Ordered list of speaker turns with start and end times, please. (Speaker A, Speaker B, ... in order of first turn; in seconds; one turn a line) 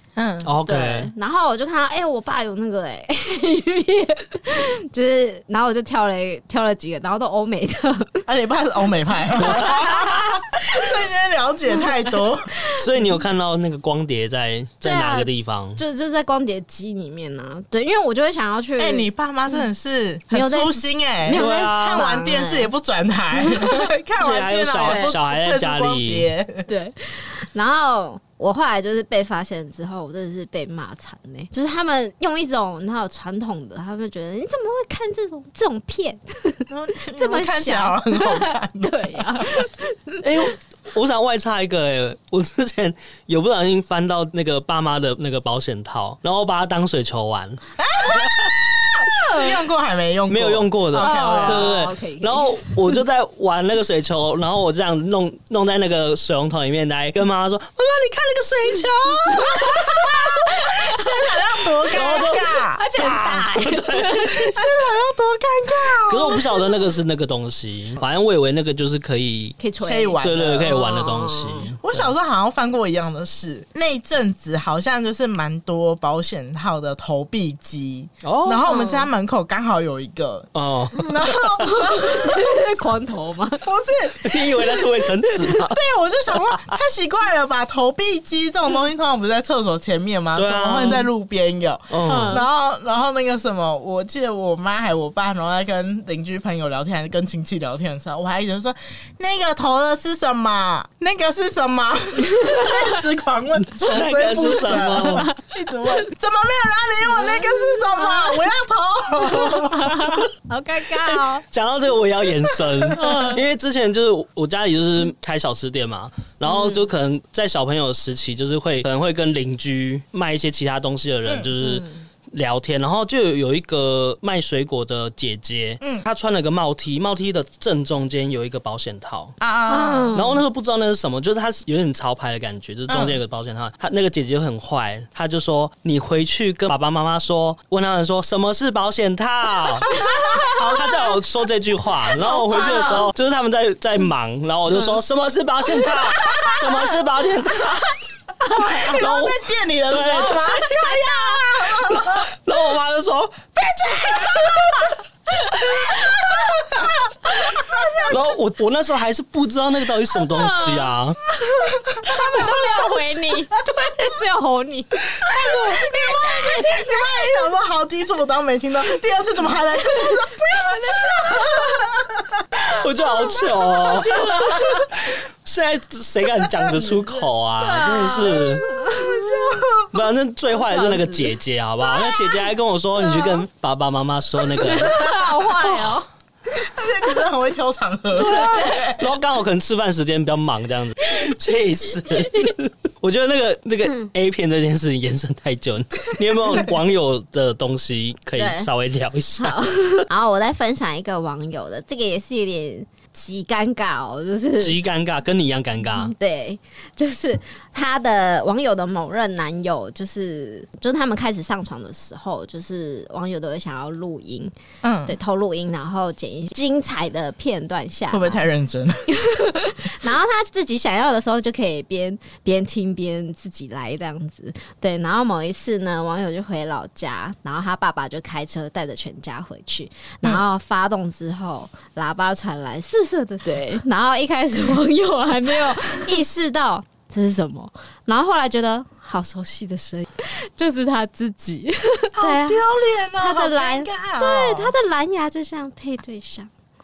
Speaker A: 0.2-0.5
Speaker B: 0.5-1.1
Speaker C: 0.7-8.3
Speaker A: 8.3-12.5
Speaker B: 9.4-10.0
Speaker C: 9.4-10.4
Speaker B: 12.7-15.8
Speaker C: 14.8-19.6
Speaker A: 18.8-26.7
Speaker C: 20.3-22.7
Speaker B: 21.3-22.1
Speaker C: 23.3-23.7
Speaker B: 24.2-26.3
Speaker C: 24.8-25.2
Speaker C: 26.7-40.5
Speaker A: 36.7-39.5
Speaker B: 40.2-48.5
Speaker A: 47.8-51.8
Speaker C: 49.1-49.4
Speaker B: 50.3-59.6
Speaker C: 51.0-52.8
Speaker A: 59.2-63.1
Speaker C: 60.3-64.7
Speaker B: 61.9-64.5
Speaker A: 64.3-66.5
Speaker B: 66.1-72.1
Speaker C: 66.4-66.6
Speaker C: 69.6-71.7
Speaker A: 69.8-70.8
Speaker A: 71.8-82.9
Speaker B: 78.2-78.7
Speaker C: 78.7-79.1
Speaker B: 80.5-81.6
Speaker C: 81.6-83.7
Speaker A: 83.6-110.2
Speaker B: 84.2-85.8
Speaker B: 86.4-86.8
Speaker B: 90.3-91.0
Speaker C: 90.8-91.0
Speaker B: 91.9-92.4
Speaker C: 92.0-92.5
Speaker C: 102.3-102.8
Speaker B: 103.7-105.3
Speaker C: 104.6-105.4
Speaker C: 107.1-108.5
Speaker C: 109.2-111.5
Speaker B: 111.5-129.4
Speaker A: 112.5-113.2
Speaker C: 112.9-113.4
Speaker C: 116.5-116.8
Speaker C: 121.6-122.0
Speaker A: 125.8-126.1
Speaker A: 129.4-130.2
Speaker C: 129.7-130.4
Speaker B: 130.1-140.0
Speaker A: 132.9-133.2
Speaker C: 139.9-140.6
Speaker A: 139.9-141.2
Speaker B: 140.6-148.0
Speaker A: 142.1-143.1
Speaker C: 142.2-143.0
Speaker A: 145.8-146.9
Speaker A: 148.4-152.3
Speaker C: 148.5-148.9
Speaker B: 148.6-150.7
Speaker C: 150.7-151.5
Speaker B: 151.9-154.8
Speaker C: 155.3-156.6
Speaker A: 155.9-156.9
Speaker C: 157.5-158.2
Speaker A: 157.6-158.1
Speaker B: 158.1-161.2
Speaker C: 160.2-165.0
Speaker A: 161.9-163.4
Speaker A: 165.2-172.8
Speaker C: 165.6-167.4
Speaker C: 169.9-171.9
Speaker B: 172.7-178.7
Speaker C: 173.8-174.9
Speaker A: 174.0-174.8
Speaker C: 177.6-179.5
Speaker A: 178.3-179.9
Speaker B: 179.9-185.9
Speaker C: 180.5-181.3
Speaker C: 181.9-182.3
Speaker C: 183.0-183.4
Speaker C: 184.6-186.1
Speaker A: 184.8-185.2
Speaker A: 186.5-189.1
Speaker B: 188.2-200.1
Speaker C: 188.2-188.9
Speaker C: 198.4-198.7
Speaker C: 199.4-204.8
Speaker B: 204.6-206.1
Speaker C: 205.9-214.5
Speaker A: 214.8-215.2
Speaker C: 215.1-218.4
Speaker A: 218.1-219.0
Speaker C: 219.1-242.7
Speaker A: 242.2-244.7
Speaker C: 243.2-246.5